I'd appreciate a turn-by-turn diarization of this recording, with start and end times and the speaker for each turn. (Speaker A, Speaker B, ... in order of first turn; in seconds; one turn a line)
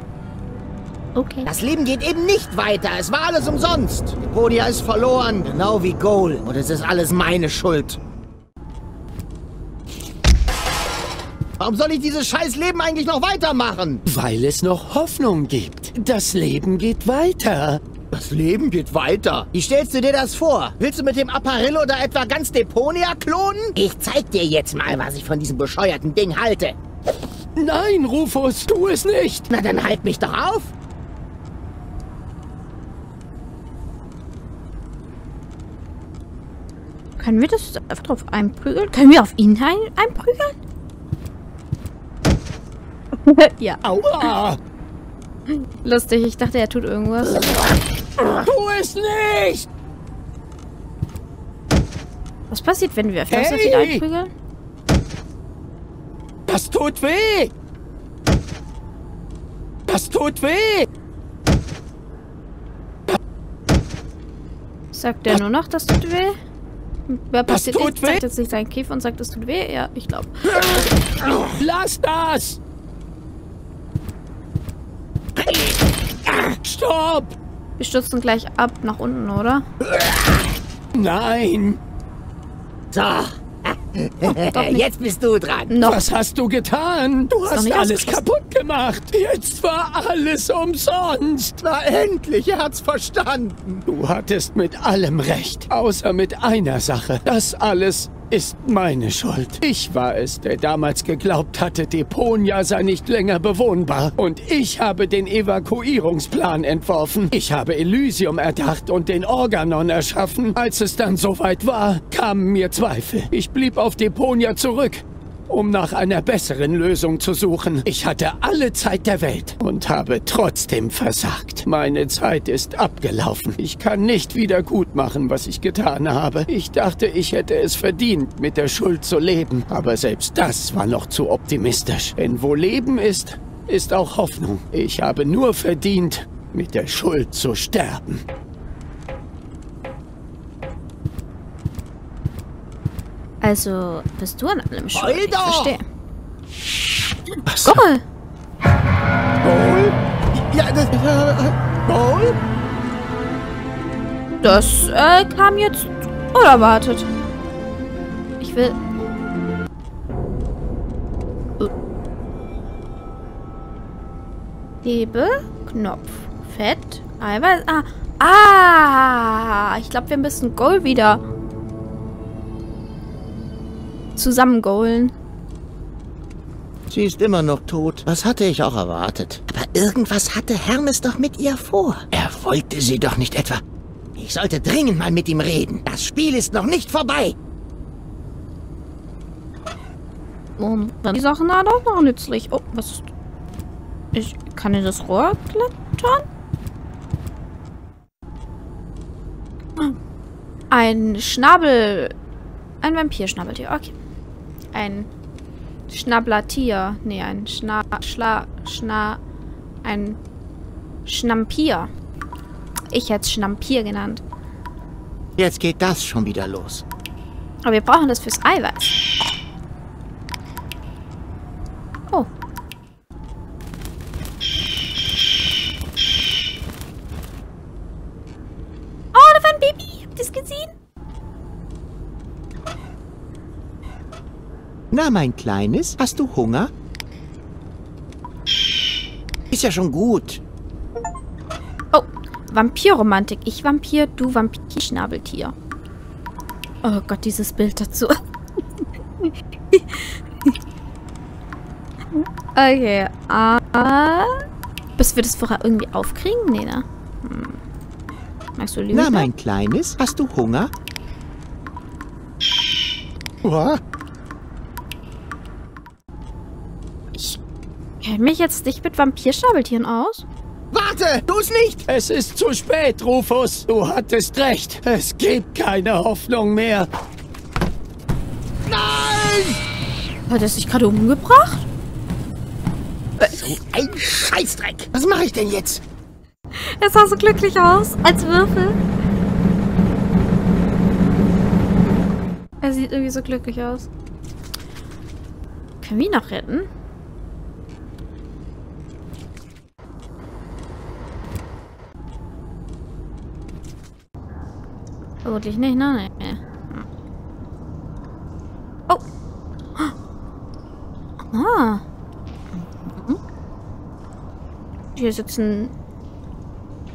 Speaker A: 1.1-1.5
Speaker B: 1.4-8.0
Speaker B: 11.6-14.0
Speaker C: 14.1-17.8
Speaker B: 18.1-26.8
Speaker C: 27.6-29.5
Speaker B: 29.5-30.7
Speaker A: 37.2-40.5
Speaker A: 43.1-44.3
Speaker C: 43.8-44.6
Speaker A: 45.5-47.5
Speaker C: 48.3-49.7
Speaker A: 52.5-54.3
Speaker C: 53.3-54.0
Speaker C: 56.5-57.5
Speaker C: 59.9-60.9
Speaker A: 64.9-66.4
Speaker A: 67.1-70.7
Speaker C: 67.5-68.2
Speaker C: 71.5-72.6
Speaker C: 76.6-77.4
Speaker A: 77.8-79.7
Speaker C: 80.9-81.8
Speaker B: 82.9-85.7
Speaker A: 84.3-84.8
Speaker A: 85.7-86.0
Speaker C: 85.8-91.6
Speaker A: 87.5-88.2
Speaker B: 91.6-93.8
Speaker C: 93.9-138.2
Speaker A: 143.4-145.8
Speaker B: 144.9-145.8
Speaker B: 147.4-147.8
Speaker A: 147.6-148.0
Speaker B: 149.4-152.4
Speaker A: 154.4-157.1
Speaker A: 158.4-158.8
Speaker A: 164.8-171.2
Speaker A: 174.2-175.1
Speaker B: 176.9-183.6
Speaker B: 184.2-187.3
Speaker A: 190.6-193.1
Speaker A: 194.1-196.2
Speaker A: 200.7-202.1
Speaker A: 202.8-203.9
Speaker A: 204.7-205.1
Speaker A: 205.9-209.2
Speaker A: 209.8-210.2
Speaker A: 211.1-211.9
Speaker A: 212.9-214.2
Speaker B: 215.4-216.8
Speaker A: 217.6-218.9
Speaker A: 229.1-230.7
Speaker B: 234.9-236.7
Speaker B: 239.5-240.4
Speaker A: 241.9-245.5
Speaker A: 246.8-248.2
Speaker A: 248.8-250.5
Speaker A: 252.1-254.4
Speaker A: 255.0-257.6
Speaker A: 258.6-259.3
Speaker B: 258.9-260.7
Speaker B: 263.4-263.8
Speaker A: 267.1-267.4
Speaker A: 268.0-270.2
Speaker B: 270.7-271.8
Speaker C: 271.9-276.9
Speaker B: 278.7-279.6
Speaker A: 280.3-281.7
Speaker B: 283.2-285.8
Speaker A: 286.5-288.8
Speaker A: 292.6-293.9
Speaker A: 295.8-296.7
Speaker A: 305.2-306.9
Speaker A: 311.2-311.8
Speaker A: 312.5-313.2
Speaker A: 314.9-315.7